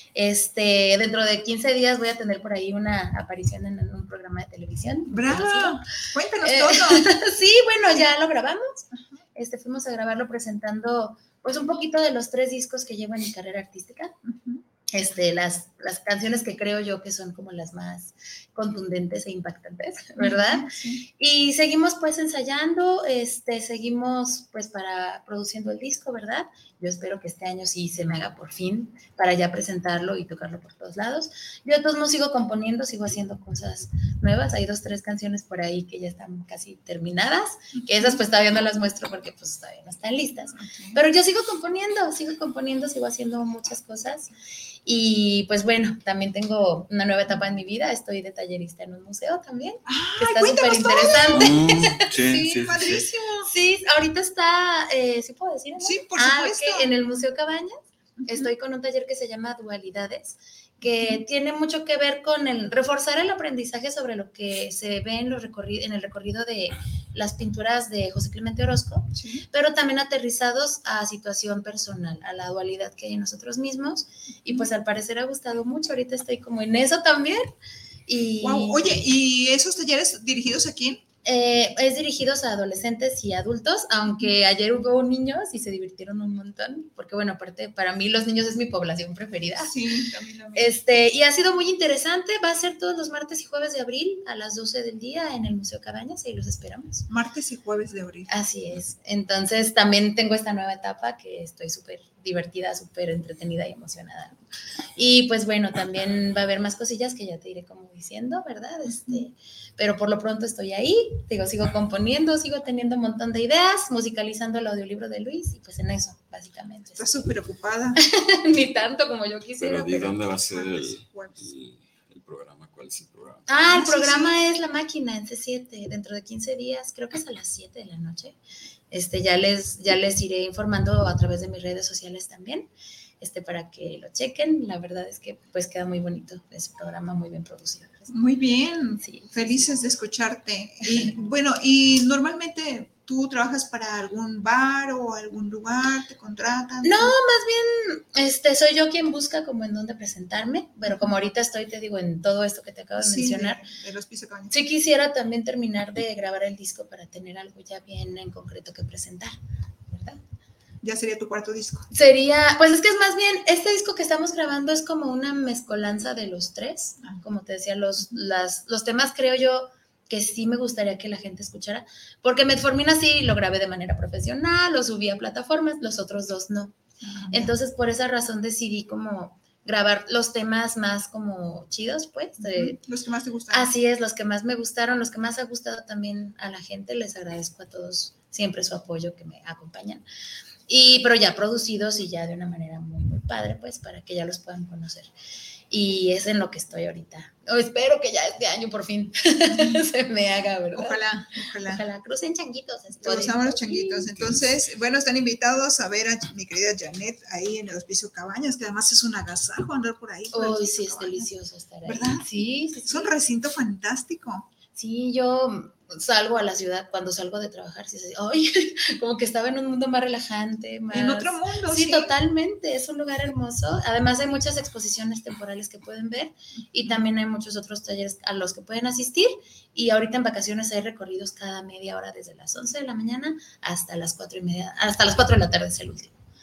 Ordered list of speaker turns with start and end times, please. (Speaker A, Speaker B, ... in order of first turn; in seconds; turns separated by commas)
Speaker A: 0.1-5.8, Speaker B: 5.1-7.1, Speaker A: 6.4-8.8, Speaker B: 8.9-9.2, Speaker A: 9.3-14.1, Speaker B: 14.2-14.6, Speaker A: 14.9-20.7, Speaker B: 20.2-21.1, Speaker A: 21.2-44.3, Speaker B: 37.9-38.2, Speaker B: 40.5-41.0, Speaker A: 44.9-51.9, Speaker B: 49.9-53.5, Speaker C: 51.3-53.1, Speaker A: 53.5-57.7, Speaker B: 55.8-56.9, Speaker B: 58.2-58.5, Speaker A: 58.3-77.5, Speaker B: 60.8-61.2, Speaker B: 69.2-69.5, Speaker A: 78.1-79.0, Speaker B: 78.4-81.0, Speaker A: 81.2-89.7, Speaker B: 89.6-90.7, Speaker A: 90.5-97.0, Speaker B: 97.1-98.3, Speaker A: 98.3-104.3, Speaker A: 105.0-117.2, Speaker B: 108.9-109.2, Speaker B: 116.9-118.0, Speaker A: 118.0-120.2, Speaker C: 119.6-123.5, Speaker B: 120.5-121.5, Speaker A: 123.5-128.3, Speaker B: 123.7-124.4, Speaker A: 128.9-138.1, Speaker B: 138.1-147.1, Speaker A: 139.0-139.7, Speaker A: 146.8-153.6, Speaker B: 153.0-154.5, Speaker A: 154.5-159.3, Speaker A: 159.9-160.2, Speaker B: 160.8-161.9, Speaker A: 161.9-176.7, Speaker B: 177.0-177.5, Speaker A: 177.3-182.8, Speaker B: 182.4-183.7, Speaker A: 183.5-190.0, Speaker A: 190.7-195.1, Speaker A: 195.7-201.0, Speaker B: 200.7-201.8, Speaker A: 201.6-204.1, Speaker B: 203.0-211.3, Speaker A: 210.3-213.1, Speaker B: 211.8-212.2, Speaker B: 212.9-214.5, Speaker A: 214.8-236.1, Speaker B: 220.9-222.1